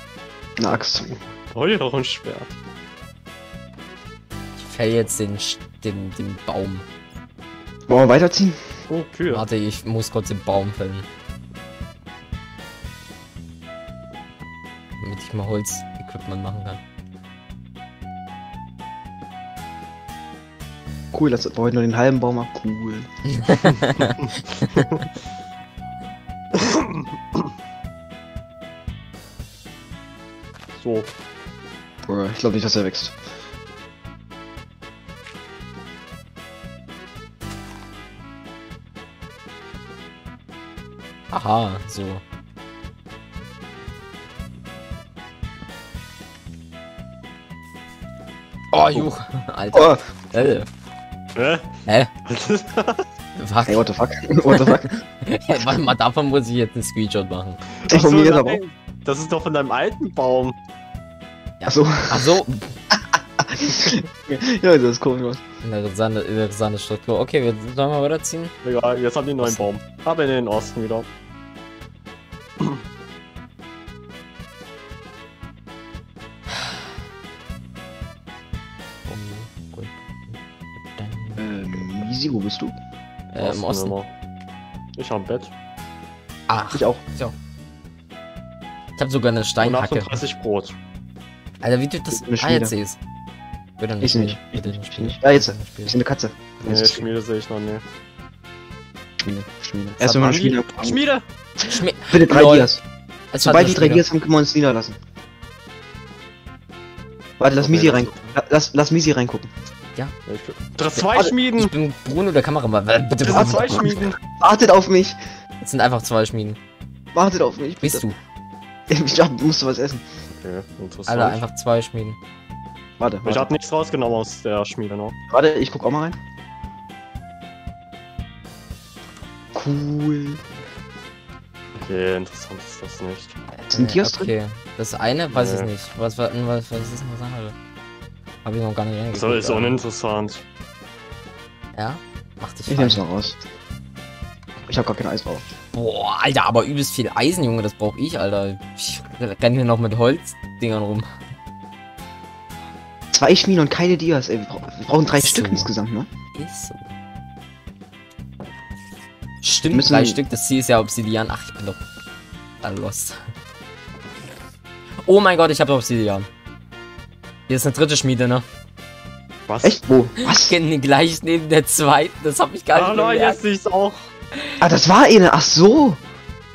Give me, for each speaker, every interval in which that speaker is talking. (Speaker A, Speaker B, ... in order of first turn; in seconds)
Speaker A: 0.6-1.1, 7.9-8.6, 21.1-23.1, 32.1-33.2, 49.7-50.5, 53.7-55.0, 57.9-58.6, 61.7-62.4, 62.9-65.4, 81.4-82.7, 86.7-87.0, 92.1-92.7, 94.0-97.0, 99.2-101.0, 102.0-102.8, 103.4-105.0, 107.4-109.5, 113.3-113.6, 114.4-115.2, 117.1-118.1, 118.9-120.0, 123.0-123.5, 125.3-126.2, 129.6-130.4, 133.7-134.3, 142.7-143.4, 144.7-145.4, 153.1-156.1, 159.7-160.2, 169.6-170.6, 174.6-176.0
Speaker B: 1.1-2.6, 8.9-9.4, 26.6-27.5, 30.8-31.1, 51.4-51.7, 52.3-53.0, 57.8-60.5, 68.6-71.1, 83.4-84.1, 85.0-85.5, 89.6-90.8, 96.6-97.8, 100.2-101.2, 107.6-108.2, 110.3-111.7, 113.2-114.2, 120.4-121.4, 123.2-125.2, 131.8-133.4, 135.3-135.7, 139.1-140.4, 169.5-169.8, 172.7-174.1
Speaker C: 4.6-6.9, 9.3-11.1, 15.0-16.8, 23.4-24.2, 41.3-42.2, 48.7-50.7, 53.4-53.9, 54.5-57.6, 61.6-62.7, 65.6-68.5, 79.1-80.4, 80.9-82.1, 83.3-84.0, 86.5-87.3, 89.0-90.2, 91.6-93.0, 93.8-96.0, 100.0-100.3, 101.7-102.8, 103.3-104.0, 111.5-113.9, 115.6-116.6, 117.8-118.2, 121.1-122.2, 133.6-137.6, 138.4-139.8, 141.7-143.0, 145.7-151.1, 155.1-155.7, 156.3-156.9, 159.4-161.8, 162.6-163.2, 165.0-166.3, 167.5-168.4, 170.2-173.4